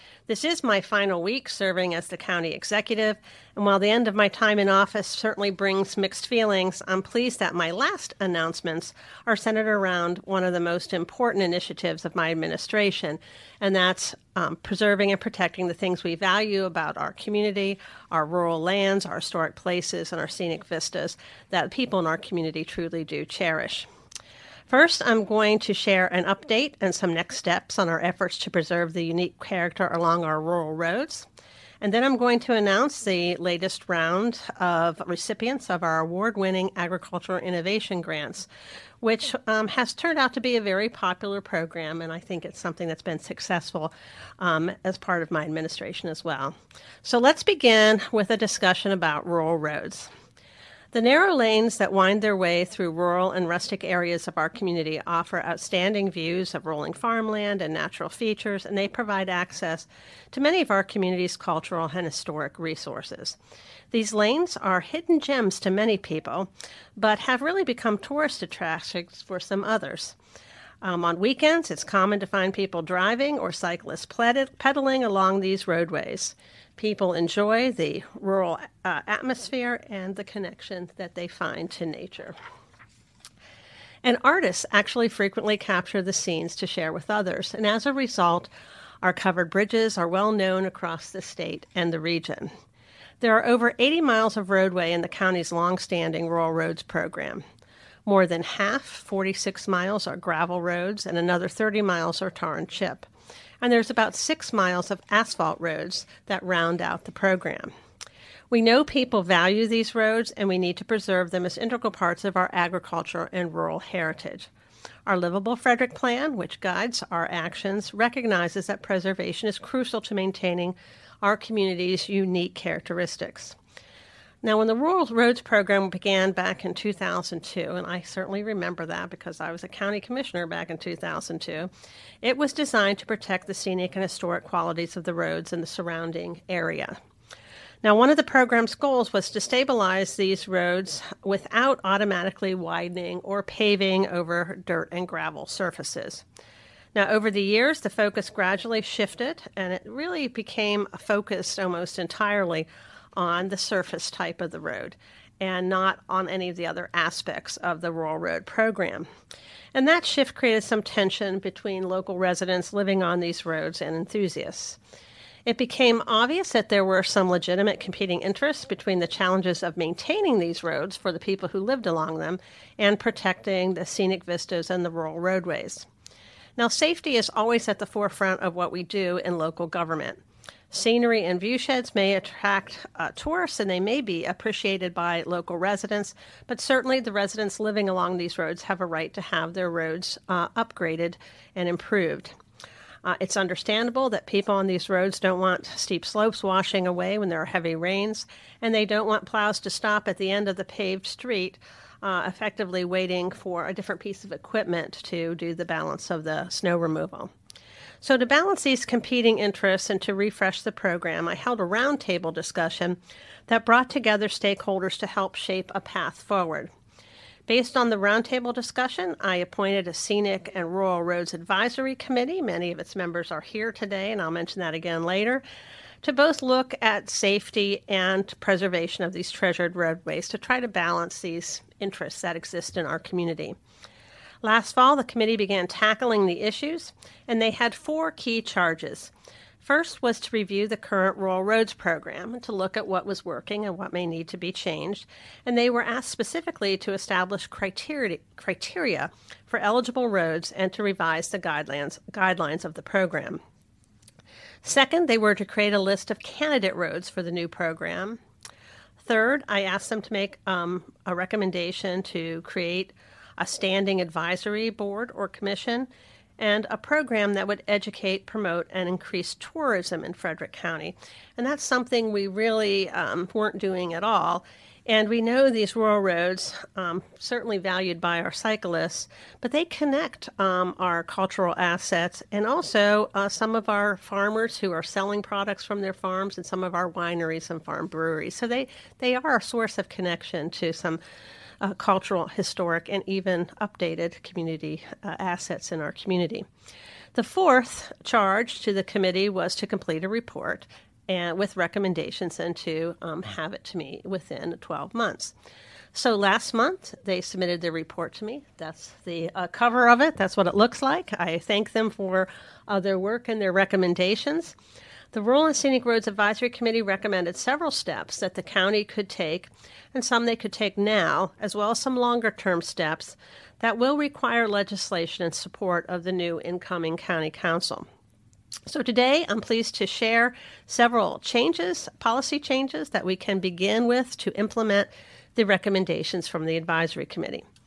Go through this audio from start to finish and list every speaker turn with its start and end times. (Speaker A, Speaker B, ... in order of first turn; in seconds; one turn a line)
Speaker A: 0.3-23.9
Speaker A: 24.7-31.3
Speaker A: 31.8-38.5
Speaker A: 39.0-50.1
Speaker A: 50.9-63.4
Speaker A: 63.9-70.2
Speaker A: 70.8-82.4
Speaker A: 84.0-88.5
Speaker A: 89.0-92.5
Speaker A: 93.2-97.4
Speaker A: 98.0-103.1
Speaker A: 103.6-107.7
Speaker A: 108.5-114.5
Speaker A: 115.0-123.6
Speaker A: 124.4-131.7
Speaker A: 132.2-137.0
Speaker A: 137.8-146.2
Speaker A: 146.9-159.1
Speaker A: 159.8-164.8
Speaker A: 165.4-175.9
Speaker A: 176.6-192.3
Speaker A: 193.0-207.3
Speaker A: 208.0-216.7
Speaker A: 217.5-225.4
Speaker A: 226.0-233.6
Speaker A: 234.4-253.4
Speaker A: 254.6-258.2
Speaker A: 259.0-291.0
Speaker A: 291.6-296.4
Speaker A: 297.1-305.3
Speaker A: 305.9-314.6
Speaker A: 315.1-327.9
Speaker A: 328.6-337.4